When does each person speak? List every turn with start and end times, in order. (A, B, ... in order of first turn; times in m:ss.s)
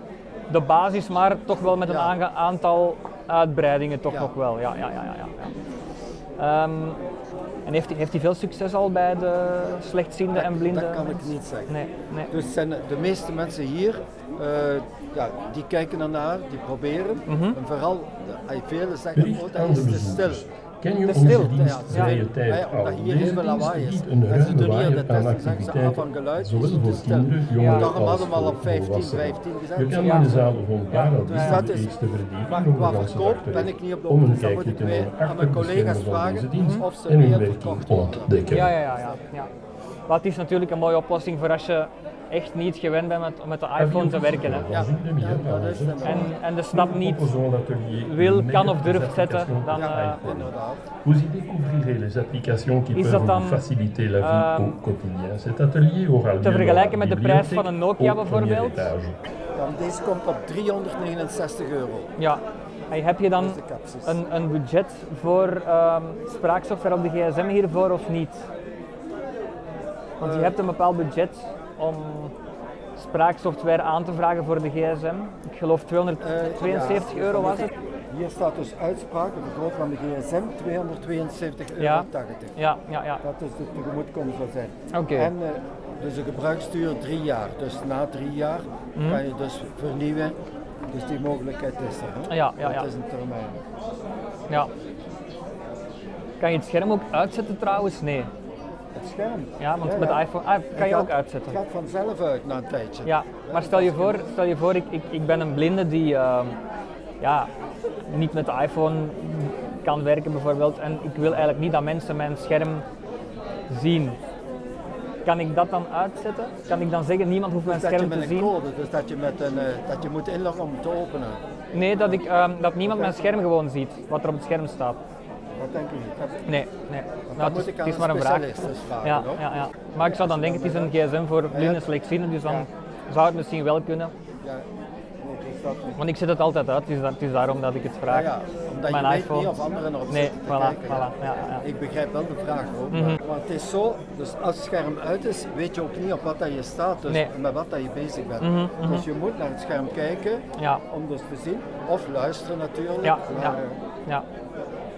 0:00.5-0:05.5 A
0:01.8-0:02.1 B
0:06.4-0:07.0 A
0:07.6-0:12.3 A
0:10.3-0:11.7 B
0:12.3-0:20.4 B
0:17.3-0:17.6 A
0:19.1-0:38.7 C
0:21.1-0:30.5 B
0:21.2-0:22.2 A
0:27.5-0:27.9 A
0:30.0-0:30.3 A
0:30.9-0:31.6 A
0:31.2-0:32.0 B
0:32.5-0:39.2 B
0:36.6-0:36.8 A
0:38.5-0:39.5 A
0:40.1-0:44.7 A
0:43.8-0:59.2 C
0:44.7-0:46.3 B
0:46.0-0:47.3 A
0:48.0-0:50.2 A
0:49.7-0:50.8 B
0:52.9-0:53.6 A
0:54.2-0:54.8 A
0:56.4-0:58.9 A
0:59.5-1:02.1 B
1:02.2-1:08.5 A
1:03.3-1:04.2 B
1:10.2-1:10.6 B
1:10.2-1:12.3 A
1:13.0-1:17.7 A
1:16.2-1:22.6 B
1:21.8-1:23.2 A
1:23.2-1:30.4 B
1:24.9-1:25.3 A
1:29.0-1:29.2 A
1:30.9-1:33.6 B
1:32.3-1:32.9 A
1:36.4-1:38.3 A
1:38.9-1:44.3 B
1:39.6-1:41.6 A
1:43.0-1:46.6 A
1:47.2-1:47.5 A
1:48.1-1:52.8 A
1:53.7-1:54.2 A
1:55.2-1:58.5 A
1:57.6-2:01.4 B
2:01.7-2:05.0 A
2:02.8-2:03.4 B
2:05.6-2:06.5 B
2:06.4-2:14.1 A
2:07.3-2:09.4 B
2:10.0-2:11.0 B
2:11.5-2:11.9 B
2:12.4-2:12.7 B
2:15.2-2:16.0 B
2:16.0-2:18.3 A
2:18.0-2:33.8 B
2:18.8-2:19.5 A
2:20.1-2:21.6 A
2:22.9-2:23.2 A
2:27.0-2:27.3 A
2:28.4-2:29.0 A
2:30.6-2:30.8 A
2:33.0-2:34.2 A